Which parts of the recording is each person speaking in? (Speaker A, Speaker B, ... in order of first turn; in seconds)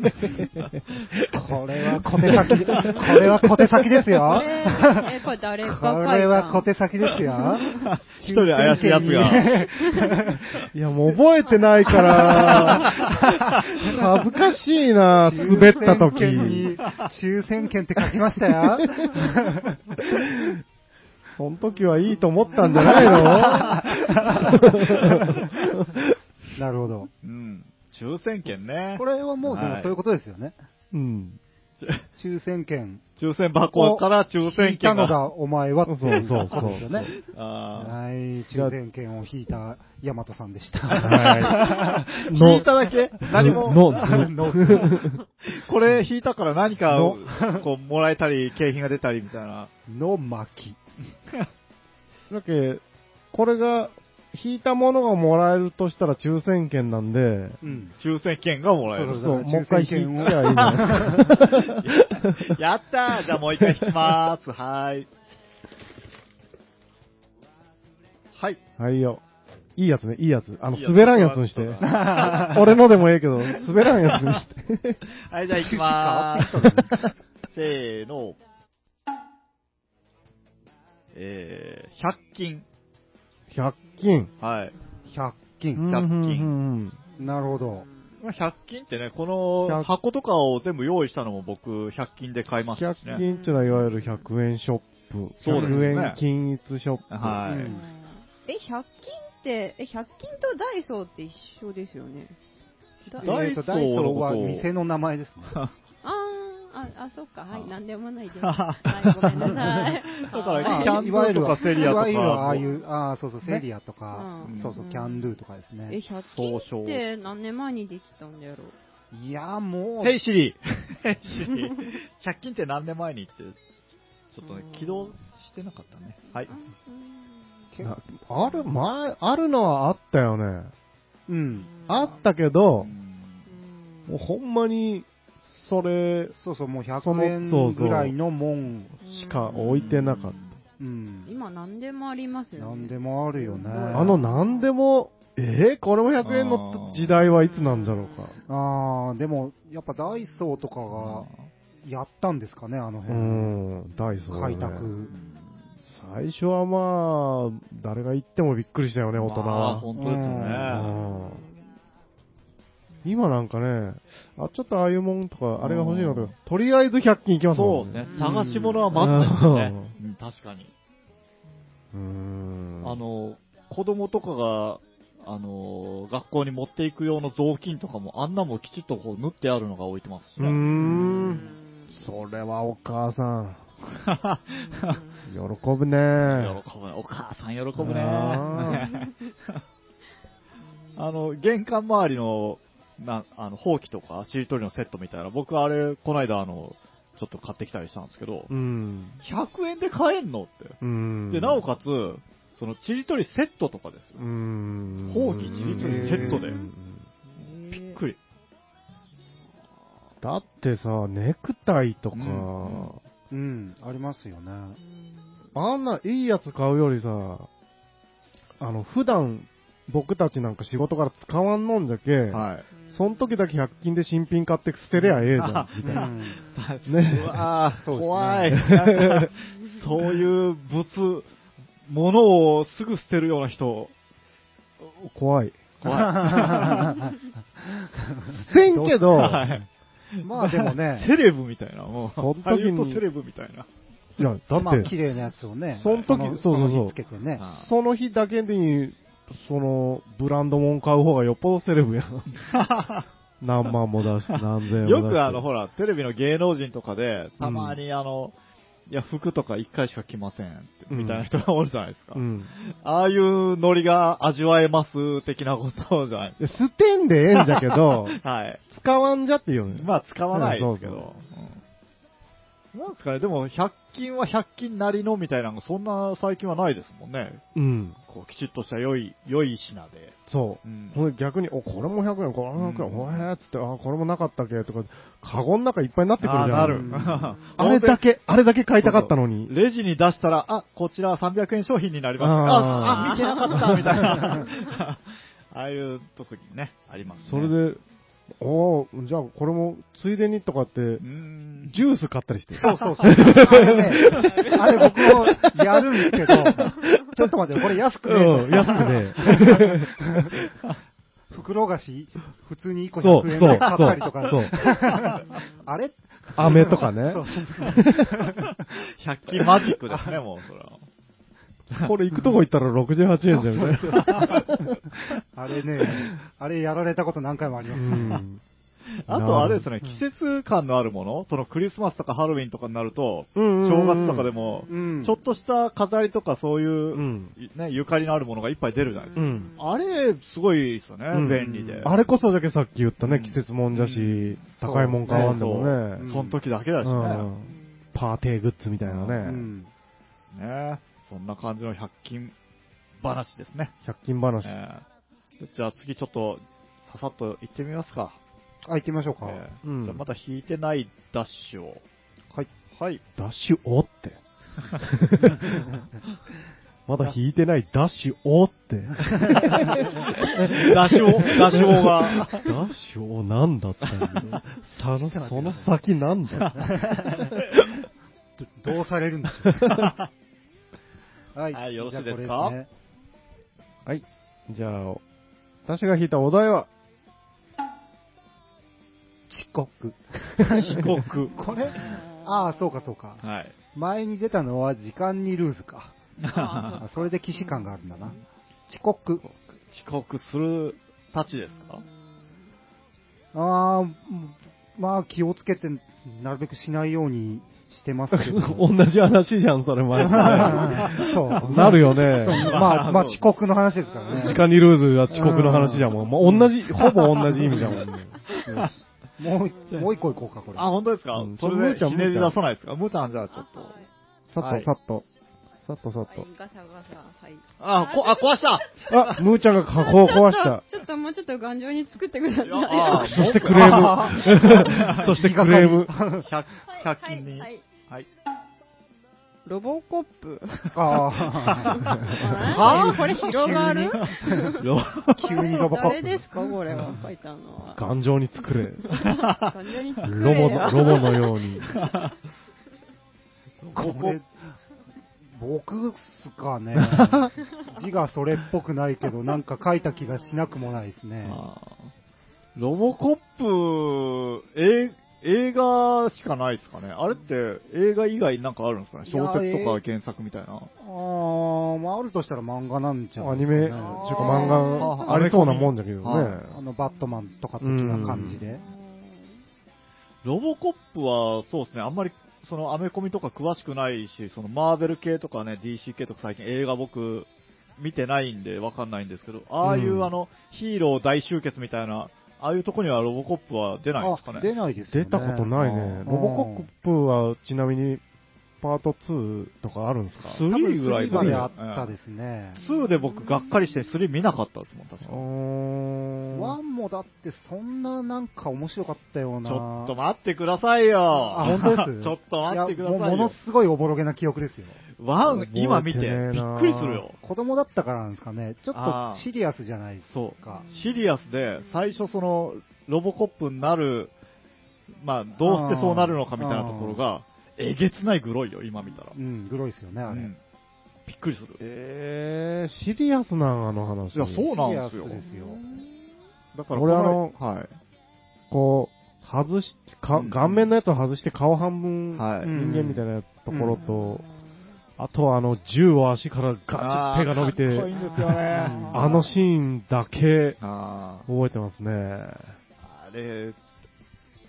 Speaker A: 0.2-1.3, 1.9-4.2, 10.7-16.8, 18.8-19.3, 20.0-20.6, 21.4-26.1, 30.9-31.4, 35.9-37.1, 41.0-45.2, 46.9-47.2, 52.3-57.6, 59.1-62.6, 63.2-64.2, 68.8-69.2, 69.8-75.0, 83.5-84.3, 85.7-87.0, 89.6-89.9, 92.8-97.5, 127.8-130.7, 131.9-132.9, 134.1-136.3, 137.0-138.2, 139.0-140.4, 143.9-148.4, 153.1-154.9, 155.9-161.4, 163.0-169.9, 171.9-173.0, 180.4-183.6, 185.3-186.6, 187.8-188.9, 198.5-199.2, 200.8-201.7, 204.2-207.1, 210.2-213.0, 215.6-217.5, 218.6-226.1, 226.9-227.4, 228.5-229.3, 234.8-235.7, 238.3-239.5, 242.2-243.0, 244.2-245.0, 245.8-246.9, 247.5-252.3, 253.4-255.4, 257.4-257.8, 260.9-261.3, 262.1-262.5, 266.4-271.1, 277.6-278.0, 280.3-289.5, 292.2-294.4, 297.3-297.8, 298.4-301.0, 301.7-307.3, 308.0-310.4, 313.0-314.6, 316.4-318.4, 321.8-324.8, 327.7-328.4, 329.1-329.7, 333.4-334.3, 336.9-337.3, 339.2-339.5, 341.1-346.1, 346.8-349.5, 353.8-354.5, 359.6-360.0, 363.2-364.2, 364.8-365.8, 366.9-377.6, 383.9-385.0, 385.7-386.7, 390.5-390.9, 408.1-412.7, 414.1-418.2, 421.2-422.4, 424.3-425.1, 425.7-426.3, 428.9-430.6, 432.9-435.9, 447.8-449.0, 450.0-451.7, 473.2-476.6, 477.6-478.4, 489.6-490.1, 494.9-498.0, 498.6-500.4, 501.1-501.5, 505.1-506.6, 515.2-517.0, 531.6-534.5, 536.7-537.4, 538.5-544.2, 545.0-547.9, 548.9-550.6, 551.3-552.6
Speaker B: 1.3-5.1, 5.7-10.6, 12.2-13.0, 15.2-19.8, 22.8-25.5, 26.6-27.1, 29.0-30.6, 32.2-33.0, 33.7-37.1, 37.8-42.5, 43.4-45.2, 47.3-47.6, 49.9-50.8, 57.6-57.9, 58.9-61.4, 71.8-72.6, 75.5-77.0, 85.1-85.9, 87.2-87.9, 95.5-96.0, 97.4-97.8, 103.2-105.6, 110.6-116.0, 119.1-120.2, 131.3-131.7, 136.4-139.0, 140.8-141.3, 142.6-144.2, 148.5-151.3, 151.8-153.6, 154.3-155.1, 160.0-160.9, 205.8-206.5, 213.3-214.8, 225.8-226.4, 227.8-228.6, 235.8-239.6, 240.2-241.1, 244.5-247.4, 286.5-287.2, 302.6-310.3, 311.3-318.6, 319.7-320.2, 323.3-324.7, 325.3-328.2, 334.7-335.1, 341.2-341.9, 344.5-346.4, 349.2-349.7, 358.6-359.4, 369.6-369.9, 375.1-375.7, 376.6-377.4, 378.4-379.8, 381.4-382.7, 389.3-393.2, 393.7-395.9, 396.8-399.2, 403.3-408.7, 410.0-414.5, 415.1-416.4, 417.4-417.8, 418.4-420.7, 434.5-436.3, 440.7-444.5, 445.2-446.9, 453.7-454.3, 455.3-461.4, 469.1-469.8, 470.8-474.6, 476.5-478.6, 494.0-496.7, 500.5-502.6, 506.3-509.9, 511.1-514.8, 517.2-520.7, 525.4-527.0, 529.1-530.3, 534.5-535.6, 542.4-543.8, 548.5-549.2
Speaker C: 4.3-7.7, 87.2-87.9, 93.1-94.1, 97.7-102.3, 103.0-103.3, 106.0-112.0, 112.6-112.8, 114.1-115.4, 115.9-118.8, 124.5-125.1, 126.5-127.5, 131.7-132.2, 133.5-134.2, 139.0-139.8, 141.3-144.7, 147.6-148.2, 160.9-161.6, 168.0-168.4, 180.8-182.0, 184.5-185.3, 188.2-189.1, 207.3-208.0, 214.8-215.2, 222.8-223.3, 303.6-304.6, 339.1-339.8, 391.4-392.6, 396.3-398.2, 401.5-402.0, 423.4-423.9, 426.1-429.2, 429.7-434.1, 436.7-437.6, 439.5-447.9, 448.6-451.8, 474.0-475.2, 478.2-479.3, 502.6-503.3, 535.2-536.0, 543.7-544.4, 547.9-548.9
Speaker D: 7.7-9.9, 11.9-14.0, 22.9-25.4, 27.2-29.9, 31.8-32.1, 33.2-35.2, 36.5-38.0, 40.9-44.2, 45.4-49.7, 58.0-59.3, 60.4-65.1, 68.3-68.6, 70.7-72.8, 74.0-74.4, 75.2-76.9, 77.5-78.4, 81.1-82.7, 84.4-84.8, 85.8-86.5, 88.2-93.2, 95.4-96.2, 97.1-97.8, 103.2-104.7, 108.4-112.7, 114.4-114.8, 116.2-117.0, 120.0-123.6, 124.3-126.5, 132.8-133.5, 139.5-140.5, 146.2-147.2, 150.9-151.5, 155.1-155.4, 159.2-160.9, 165.6-166.3, 167.5-170.7, 172.8-181.4, 183.8-185.0, 186.2-189.6, 191.0-198.5, 199.2-200.8, 201.3-204.2, 205.1-206.6, 207.4-208.2, 212.1-212.9, 222.3-222.7, 224.9-231.3, 231.9-233.9, 235.8-237.0, 239.1-243.7, 247.4-247.7, 252.3-253.1, 254.3-258.4, 258.9-266.6, 267.4-268.6, 269.7-271.6, 272.7-277.4, 278.1-281.0, 282.6-283.3, 286.2-288.0, 288.8-297.6, 301.0-301.8, 313.4-313.9, 314.6-315.4, 318.4-320.8, 323.9-324.5, 329.0-342.0, 343.0-347.3, 348.8-349.2, 350.3-352.3, 353.0-353.7, 354.4-354.9, 355.4-358.2, 359.2-361.8, 362.8-363.0, 370.0-372.5, 373.9-374.3, 379.6-380.1, 381.5-382.6, 390.5-391.9, 393.2-393.5, 396.2-396.8, 399.2-401.8, 410.0-413.3, 416.2-418.7, 419.7-420.0, 420.5-423.8, 424.4-424.7, 427.6-429.2, 432.4-435.1, 436.2-438.1, 442.3-445.6, 449.0-449.5, 451.7-452.1, 453.6-454.2, 456.8-457.3, 461.3-461.9, 462.6-470.7, 473.8-476.4, 480.2-494.6, 500.2-501.9, 502.6-505.3, 509.4-513.4, 515.0-517.2, 518.7-519.2, 520.1-524.1, 525.0-529.2, 530.1-530.4, 531.1-531.6, 534.1-535.2, 536.5-537.7, 540.1-540.8, 542.1-542.5, 546.8-549.3, 550.6-551.3, 552.8-553.6